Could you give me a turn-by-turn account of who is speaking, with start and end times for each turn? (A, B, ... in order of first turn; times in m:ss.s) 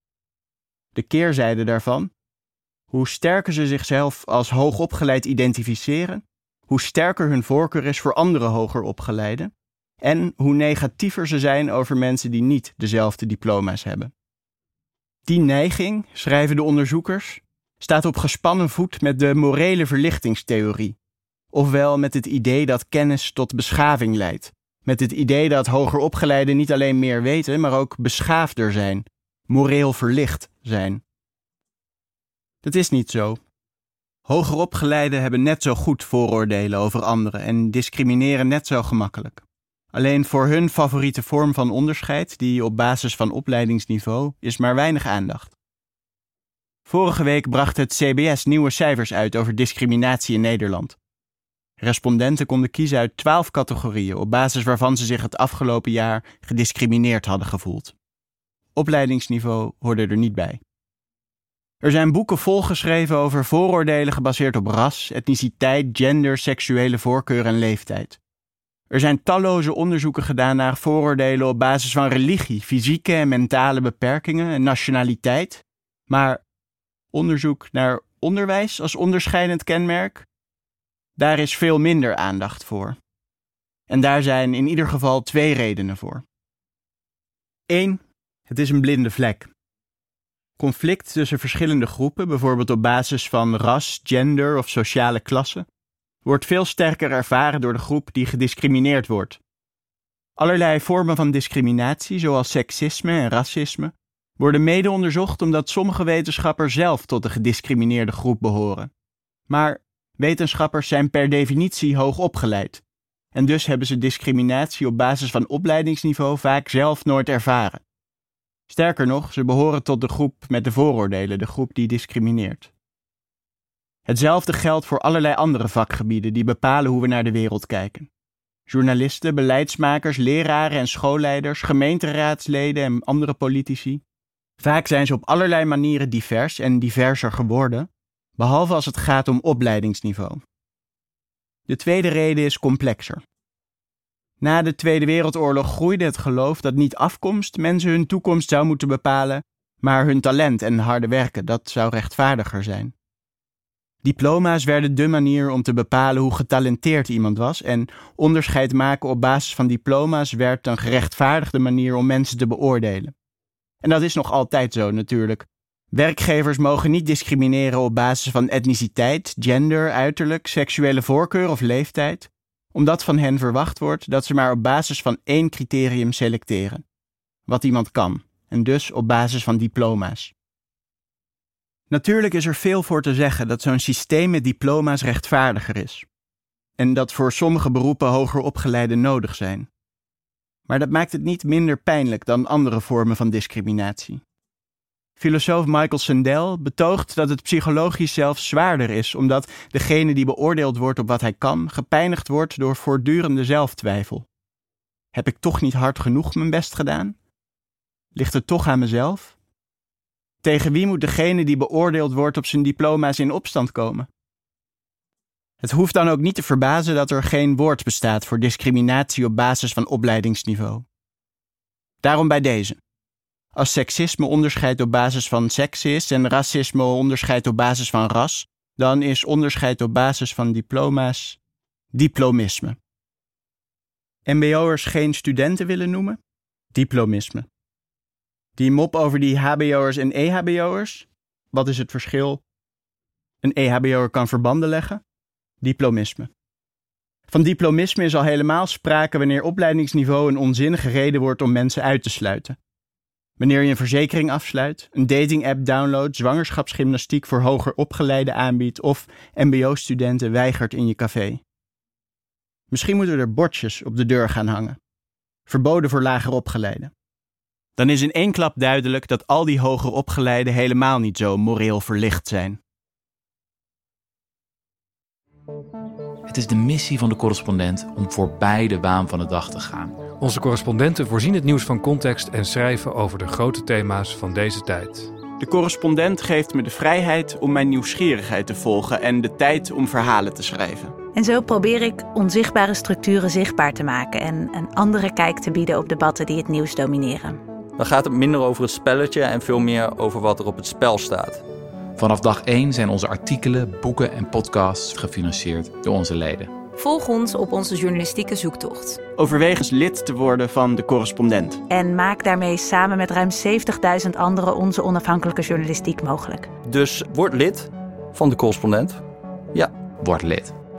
0:01.0-0:02.1 A
0:02.9-0:14.1 A
0:15.3-0:21.0 A
0:21.5-0:31.0 A
0:32.6-0:33.4 A
0:34.3-0:45.6 A
0:46.9-0:51.0 A
0:51.8-0:58.0 A
0:58.8-1:00.6 A
1:01.8-1:08.2 A
1:08.9-1:16.4 A
1:17.1-1:20.3 A
1:21.2-1:23.0 A
1:23.9-1:26.2 A
1:27.7-1:29.5 A
1:30.6-1:35.7 A
1:36.2-1:39.4 A
1:40.4-1:48.9 A
1:49.5-1:52.8 A
1:53.3-1:57.8 A
1:58.7-2:02.7 A
2:04.1-2:08.1 A
2:08.7-2:14.0 A
2:14.6-2:20.4 A
2:21.7-2:23.2 A
2:24.4-2:32.9 A
2:34.0-2:43.1 A
2:43.8-2:56.8 A
2:57.5-3:00.3 A
3:01.9-3:06.1 A
3:06.8-3:09.7 A
3:10.7-3:14.2 A
3:15.2-3:24.3 A
3:25.1-3:27.2 A
3:28.2-3:29.4 A
3:30.4-3:34.1 A
3:35.6-3:40.8 A
3:42.0-3:42.8 A
3:43.6-3:51.4 A
3:51.9-3:52.8 A
3:54.3-3:56.2 A
3:56.7-3:57.5 A
3:58.6-4:02.4 A
4:03.4-4:05.0 A
4:05.6-4:06.3 A
4:07.3-4:12.6 A
4:13.4-4:21.4 A
4:22.7-4:24.8 A
4:25.5-4:26.9 A
4:27.8-4:32.6 A
4:36.3-4:40.0 B
4:40.2-4:45.1 C
4:45.4-4:50.9 A
4:51.2-4:57.4 D
4:57.8-5:01.4 E
5:02.0-5:06.5 B
5:06.8-5:09.0 F
5:09.2-5:11.6 A
5:11.7-5:16.5 D
5:16.7-5:19.0 E
5:20.0-5:20.5 B